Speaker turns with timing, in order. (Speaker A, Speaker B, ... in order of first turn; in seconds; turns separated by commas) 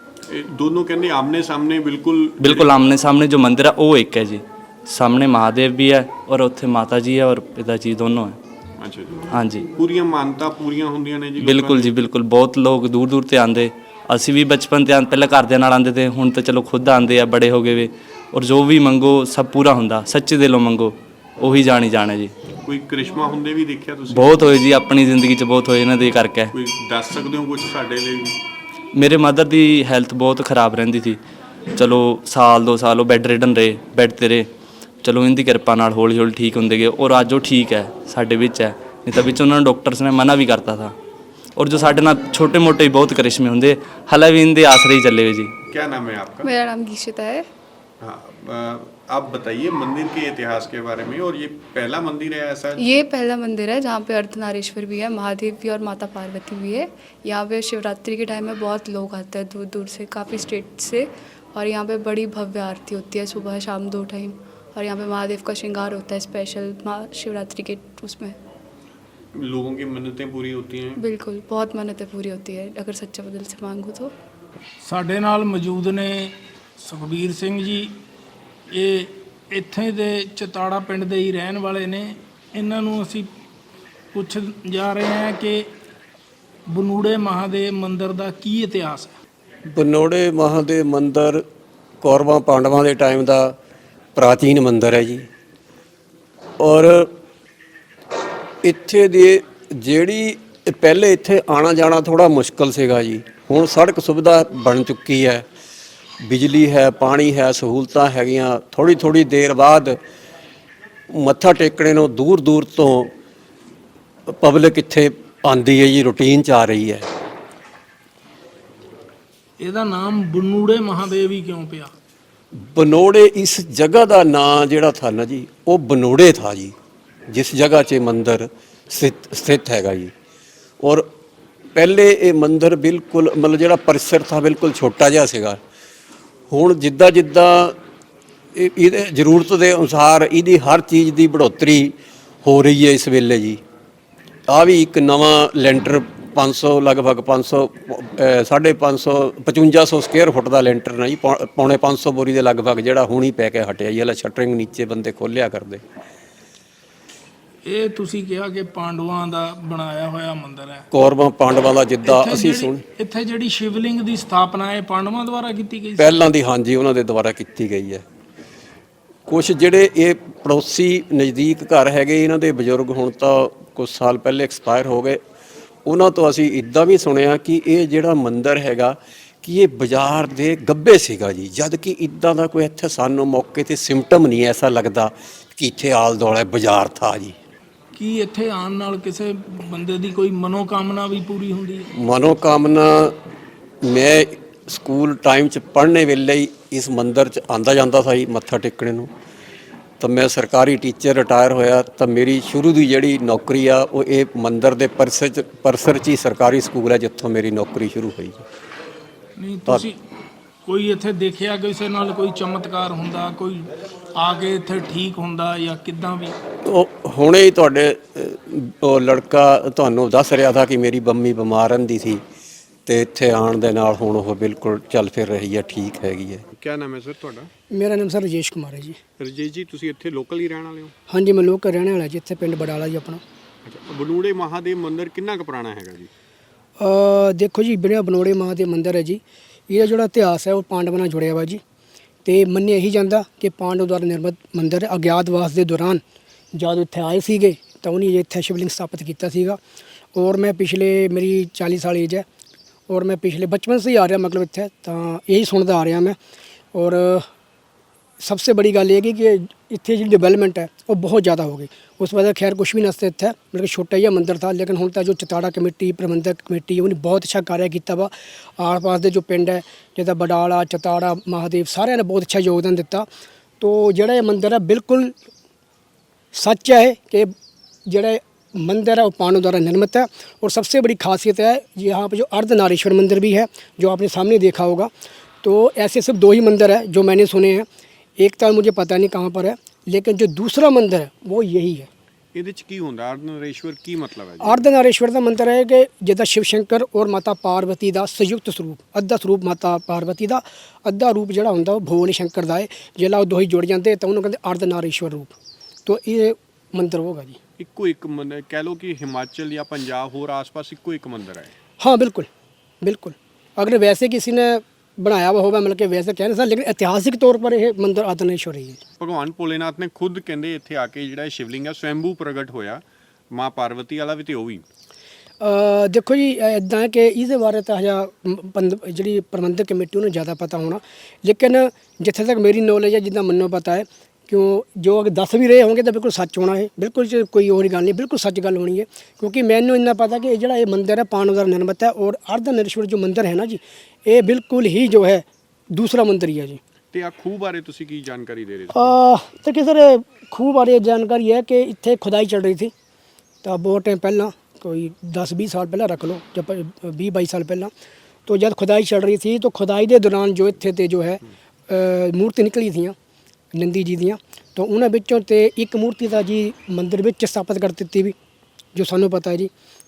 Speaker A: 0.3-2.8, Speaker B: 2.4-8.4, Speaker A: 8.8-11.9, Speaker B: 9.3-9.7, Speaker B: 11.4-22.3, Speaker A: 22.6-24.5, Speaker B: 24.1-26.5, Speaker A: 26.5-28.4, Speaker B: 28.9-31.2, Speaker B: 31.8-34.5, Speaker B: 35.0-40.9, Speaker B: 41.6-45.5, Speaker A: 45.7-46.5, Speaker C: 46.4-47.5, Speaker A: 48.0-53.0, Speaker C: 52.8-68.4, Speaker A: 69.3-71.0, Speaker C: 71.0-74.1, Speaker D: 74.8-78.0, Speaker D: 78.7-83.3, Speaker D: 84.1-85.6, Speaker D: 86.7-89.1, Speaker E: 89.7-91.4, Speaker E: 92.0-93.5, Speaker E: 94.2-95.2, Speaker E: 96.6-97.1, Speaker E: 98.6-105.4, Speaker E: 106.2-110.0, Speaker E: 111.1-113.1, Speaker E: 114.3-117.1, Speaker D: 119.6-121.9, Speaker E: 122.7-126.7, Speaker E: 127.3-130.1, Speaker E: 130.8-131.1, Speaker E: 131.8-135.6, Speaker E: 136.5-137.8, Speaker E: 138.6-143.6, Speaker E: 144.5-155.8, Speaker D: 157.6-160.9, Speaker E: 160.9-162.8, Speaker D: 162.0-166.3, Speaker E: 166.0-168.0, Speaker E: 169.3-175.2, Speaker E: 175.9-187.4, Speaker D: 187.9-191.9, Speaker E: 192.0-193.1, Speaker E: 193.8-199.1, Speaker E: 200.0-208.4, Speaker D: 209.4-210.0, Speaker D: 210.7-216.3, Speaker E: 216.6-222.2, Speaker E: 222.9-226.4, Speaker A: 226.5-227.5, Speaker F: 227.7-229.0, Speaker A: 229.2-230.9, Speaker F: 231.1-233.2, Speaker A: 233.6-236.1, Speaker F: 236.8-241.6, Speaker F: 242.2-246.0, Speaker F: 246.5-249.6, Speaker F: 250.1-252.2, Speaker F: 252.9-256.2, Speaker F: 256.7-257.3, Speaker F: 258.2-273.1, Speaker F: 273.6-275.1, Speaker F: 276.3-277.3, Speaker F: 277.9-284.9, Speaker F: 285.4-287.7, Speaker F: 288.2-291.9, Speaker A: 292.3-294.7, Speaker F: 294.4-307.4, Speaker A: 307.6-311.5, Speaker F: 311.8-312.3, Speaker F: 312.8-318.8, Speaker A: 319.0-324.6, Speaker F: 325.4-346.6, Speaker A: 346.9-349.0, Speaker F: 348.7-352.7, Speaker F: 353.4-357.7, Speaker F: 358.3-363.0, Speaker F: 363.5-368.1, Speaker F: 368.8-369.5